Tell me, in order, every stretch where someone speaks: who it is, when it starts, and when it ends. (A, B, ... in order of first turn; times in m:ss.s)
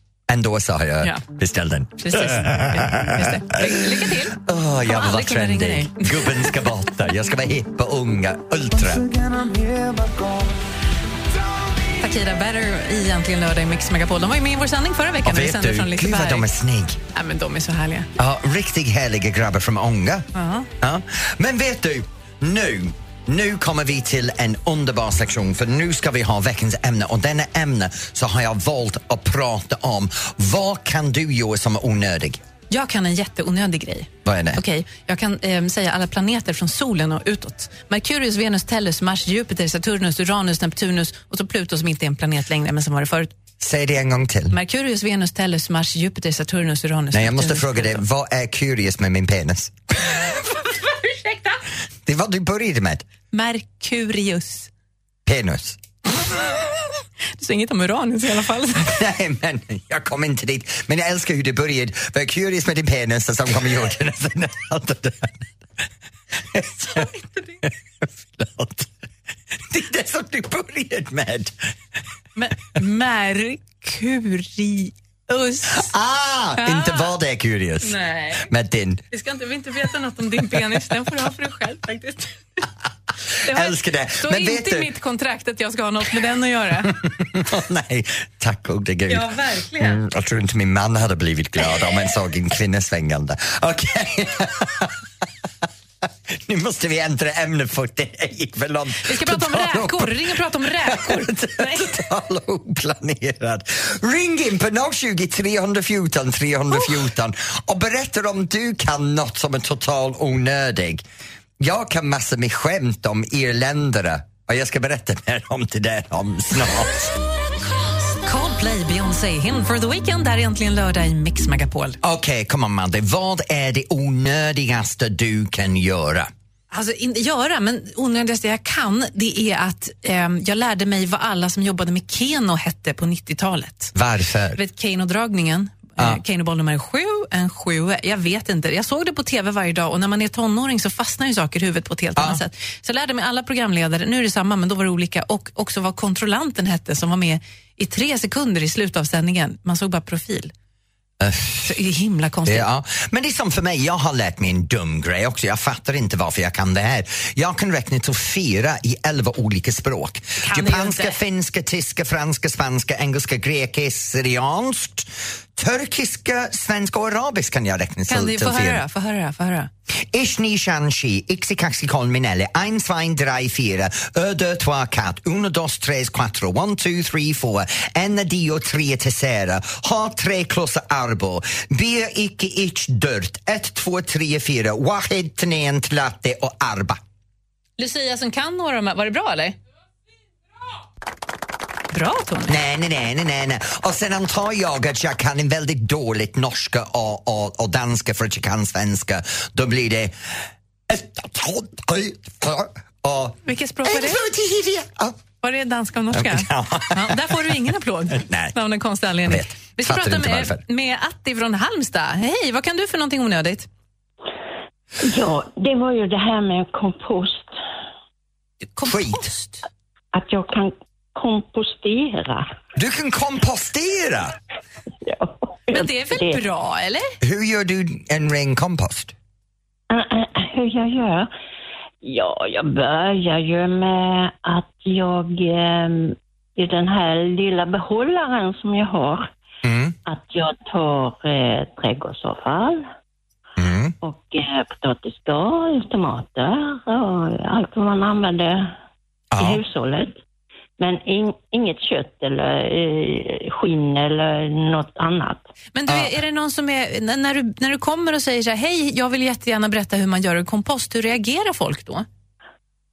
0:00.3-0:09.1 A
0:02.0-0:06.6 B
0:11.9-0:16.5 B
0:15.2-0:17.0 A
0:17.1-0:18.1 B
0:18.2-0:20.3 A
0:20.3-0:20.7 B
0:20.8-0:32.4 A
0:32.7-0:43.3 B
0:34.2-0:34.6 A
0:43.6-0:44.6 A
0:44.5-0:48.0 B
0:47.1-0:49.7 A
0:50.6-0:51.6 B
0:52.0-0:53.0 A
0:53.3-0:54.7 B
0:55.2-0:55.8 A
0:57.4-0:58.9 B
0:58.8-1:05.4 A
1:06.3-1:08.9 A
1:06.9-1:07.6 B
1:09.7-1:11.5 A
1:12.4-1:15.9 B
1:15.7-1:19.0 A
1:16.6-1:17.1 B
1:17.8-1:18.5 B
1:19.1-1:22.6 B
1:23.4-1:27.0 B
1:23.4-1:24.9 A
1:26.8-1:35.0 A
1:29.1-1:30.0 B
1:36.3-1:51.0 A
1:39.0-1:42.0 B
1:51.6-1:57.1 A
1:58.1-2:02.0 B
2:02.0-2:06.3 A
2:06.7-2:13.9 B
2:13.9-2:14.6 A
2:14.5-2:30.5 B
2:22.2-2:22.4 A
2:31.2-2:31.7 A
2:31.6-2:32.7 B
2:32.4-2:48.8 A
2:40.4-2:41.2 B
2:48.1-2:49.7 B
2:50.1-3:07.0 A
3:07.8-3:09.6 B
3:11.9-3:12.6 B
3:12.5-3:20.1 A
3:20.9-3:25.2 A
3:23.4-3:24.3 B
3:25.4-3:33.7 B
3:26.1-3:28.6 A
3:29.2-3:30.6 A
3:35.0-3:37.5 C
3:38.7-3:39.6 B
3:38.8-3:39.2 A
3:40.1-3:42.4 C
3:42.8-3:44.3 A
3:45.0-3:46.4 C
3:45.7-3:47.1 B
3:47.2-3:49.1 A
3:49.9-3:51.3 C
3:52.0-3:59.3 C
3:59.6-4:00.0 A
4:00.0-4:02.8 C
4:03.6-4:03.9 A
4:04.0-4:08.7 C
4:09.3-4:09.6 A
4:09.4-4:10.2 C
4:10.8-4:15.4 C
4:15.7-4:22.0 B
4:15.9-4:16.1 A